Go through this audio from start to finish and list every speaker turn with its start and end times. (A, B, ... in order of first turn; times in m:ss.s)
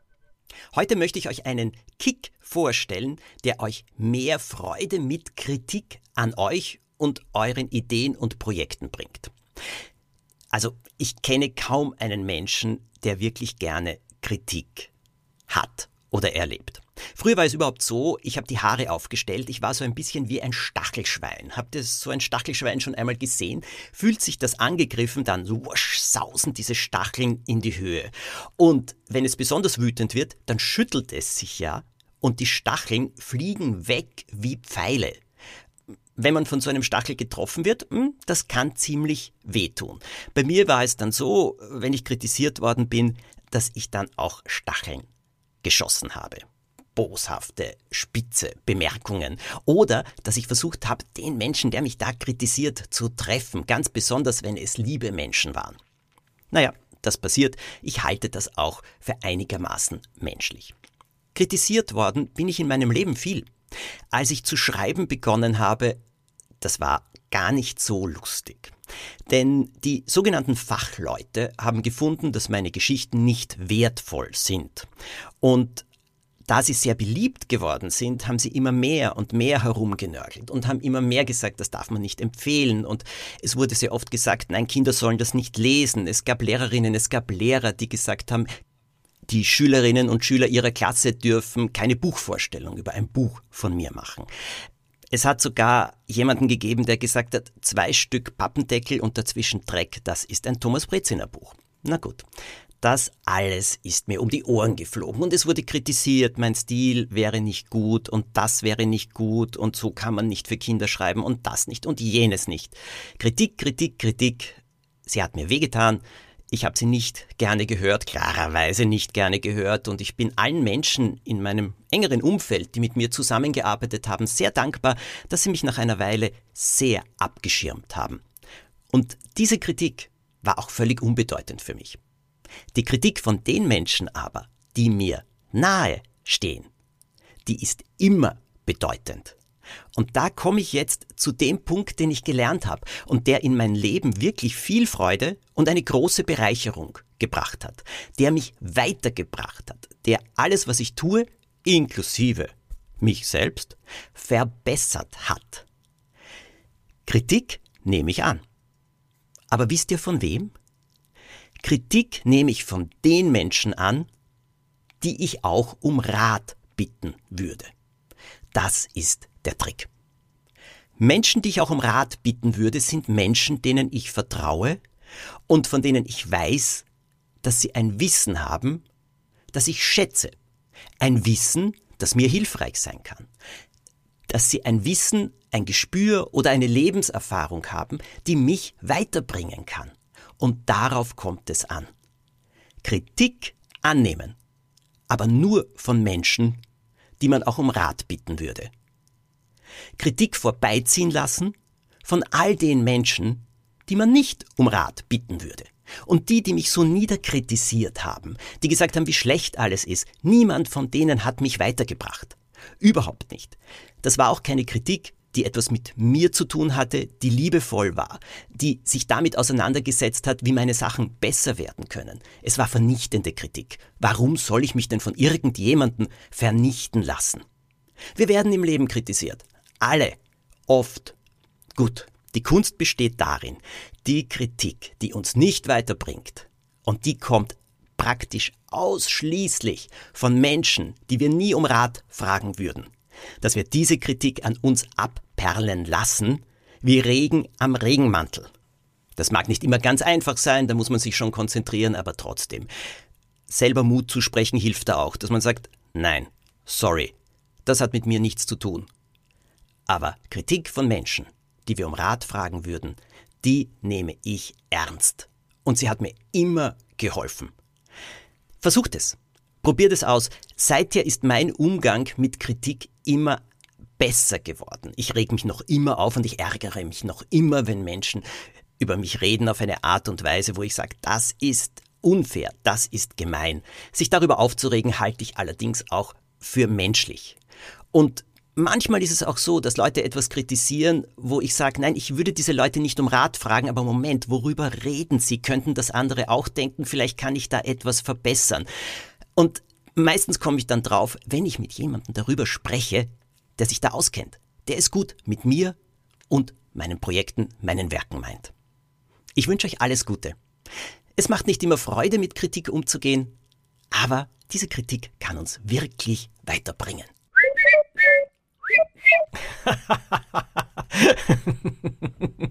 0:00.7-0:09.3 A
0:10.5-0:14.9 A
0:15.5-0:35.2 A
0:36.2-0:45.1 A
0:45.6-0:46.4 A
0:47.0-0:55.8 A
0:56.5-1:00.8 A
1:01.4-1:03.5 A
1:04.1-1:06.0 A
1:06.6-1:08.7 A
1:09.3-1:14.9 A
1:15.4-1:15.9 A
1:16.5-1:28.5 A
1:29.3-1:34.3 A
1:35.1-1:42.2 A
1:42.8-2:08.2 A
2:08.9-2:12.0 A
2:12.7-2:16.7 A
2:17.5-2:19.4 A
2:20.0-2:35.7 A
2:37.1-2:38.4 A
2:39.5-2:40.5 A
2:41.6-2:44.1 A
2:45.0-2:47.7 A
2:48.5-2:49.9 A
2:51.0-2:54.8 A
2:55.5-2:56.9 A
2:57.4-2:58.8 A
2:59.5-3:00.3 A
3:01.0-3:03.3 A
3:04.3-3:11.9 A
3:12.8-3:14.4 A
3:15.1-3:16.6 A
3:17.2-3:18.7 A
3:20.0-3:21.5 A
3:22.0-3:47.4 A
3:48.2-3:50.2 A
3:50.7-3:51.2 A
3:51.8-4:02.9 A
4:03.4-4:08.5 A
4:09.2-4:12.7 A
4:13.5-4:17.1 A
4:17.6-4:18.9 A
4:19.9-4:27.5 A
4:28.6-4:33.4 A
4:34.0-4:38.2 A
4:38.8-4:47.4 A
4:47.9-4:58.7 A
4:59.4-5:05.8 A
5:06.3-5:08.5 A
5:09.4-5:10.4 A
5:11.2-5:13.4 A
5:13.9-5:17.1 A